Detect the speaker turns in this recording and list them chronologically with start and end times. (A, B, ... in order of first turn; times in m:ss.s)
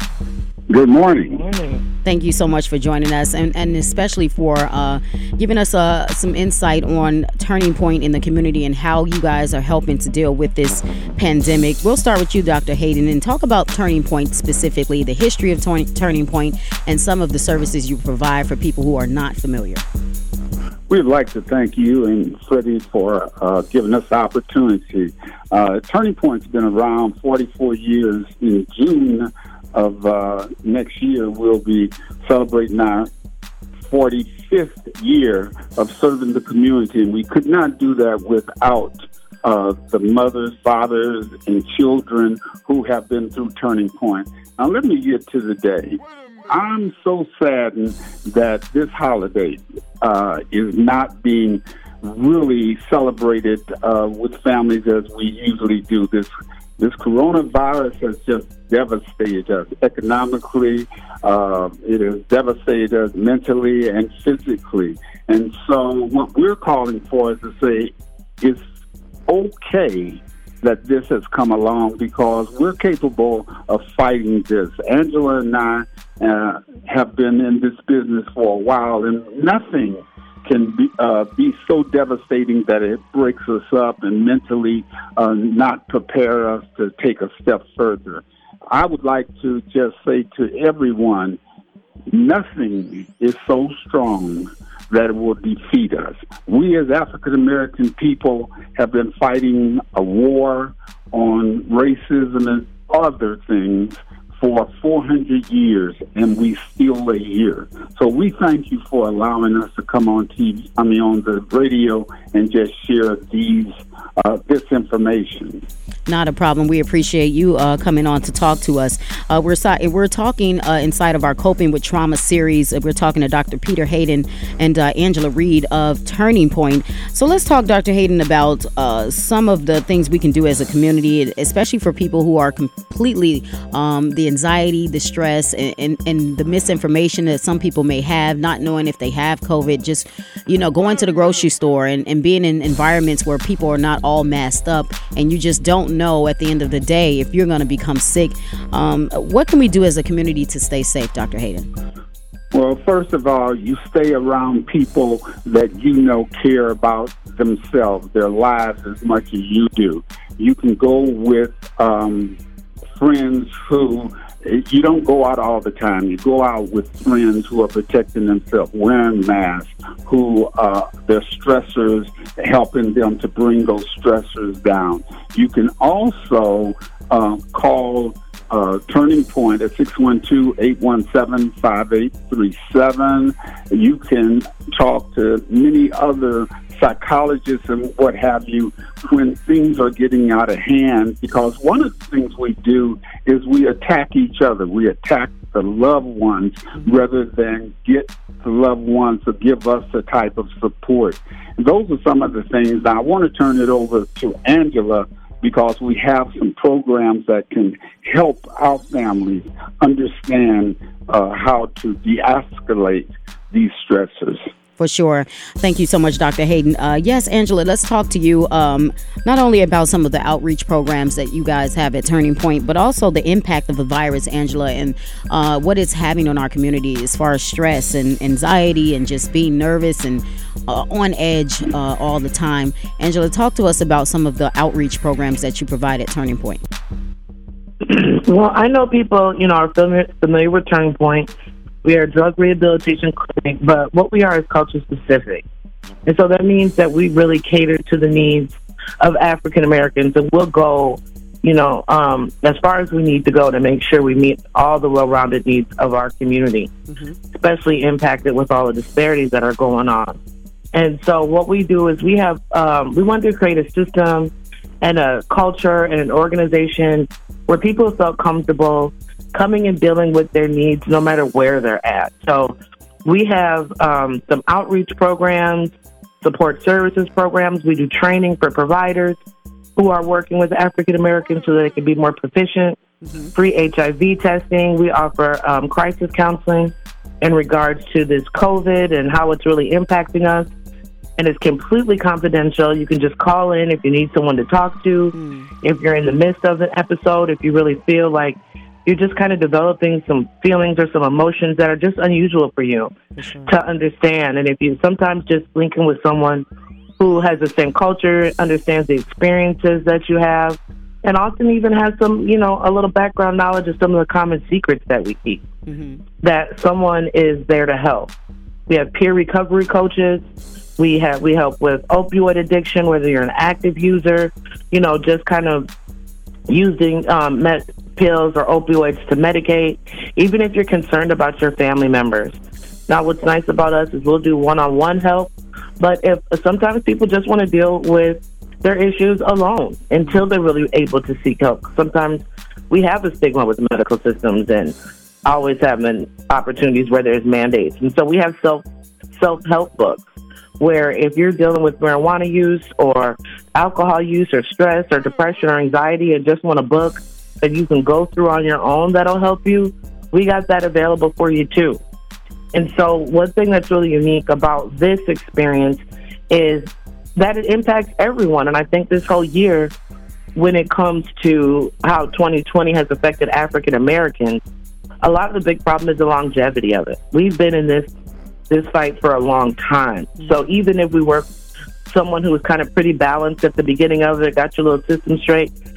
0:00.7-0:01.4 A
0:01.3-0:01.8 B
0:02.0-0:19.8 C
0:20.9-0:33.1 A
0:33.8-1:08.6 A
1:09.3-1:31.4 A
1:32.1-1:55.6 A
1:56.1-2:31.7 C
2:32.5-2:42.4 A
2:43.0-3:34.4 A
3:34.8-3:56.6 C
3:57.8-4:01.3 B
4:01.8-4:05.4 B
4:06.0-4:16.7 B
4:16.9-4:17.2 C
4:17.3-4:20.2 B
4:20.7-4:39.2 B
4:39.8-4:42.8 B
4:43.0-4:43.3 C
4:43.3-4:50.5 B
4:51.2-5:02.9 B
4:55.1-4:55.5 C
5:03.2-5:03.5 C
5:03.4-5:06.4 B
5:07.0-5:15.4 B
5:15.7-5:16.0 C
5:16.2-5:18.1 B
5:18.7-5:20.2 B
5:20.8-5:25.7 B
5:26.5-5:32.4 B
5:32.9-5:50.0 B
5:50.6-6:01.8 B
6:02.5-6:09.7 B
6:10.3-6:14.4 B
6:15.0-6:17.9 B
6:18.5-6:21.3 B
6:21.9-6:25.5 B